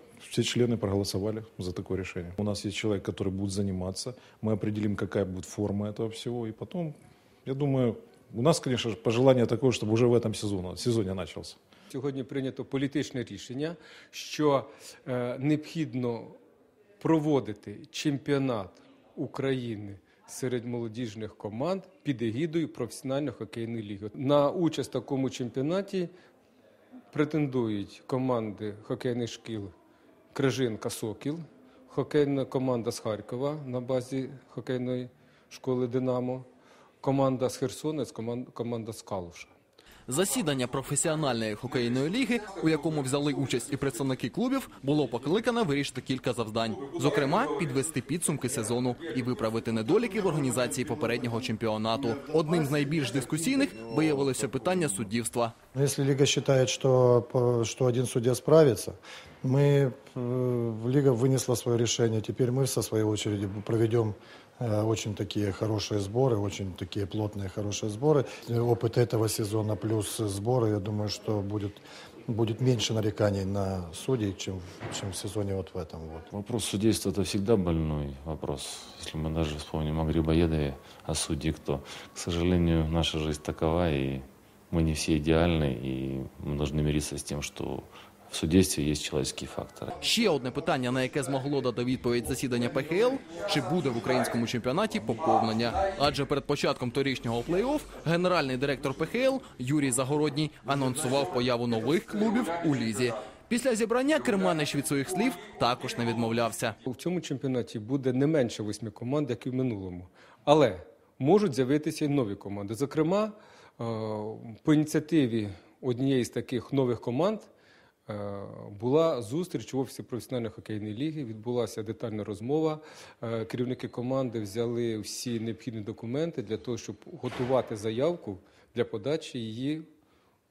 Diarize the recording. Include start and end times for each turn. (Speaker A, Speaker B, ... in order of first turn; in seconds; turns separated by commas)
Speaker A: 0.2-11.6, Speaker B: 11.9-16.4, Speaker B: 17.0-26.1, Speaker B: 27.1-29.7, Speaker B: 30.3-36.5, Speaker B: 37.0-39.5, Speaker C: 40.1-55.5, Speaker D: 55.7-76.3, Speaker E: 76.3-89.9, Speaker C: 90.0-106.8, Speaker B: 106.8-117.5, Speaker B: 118.1-129.9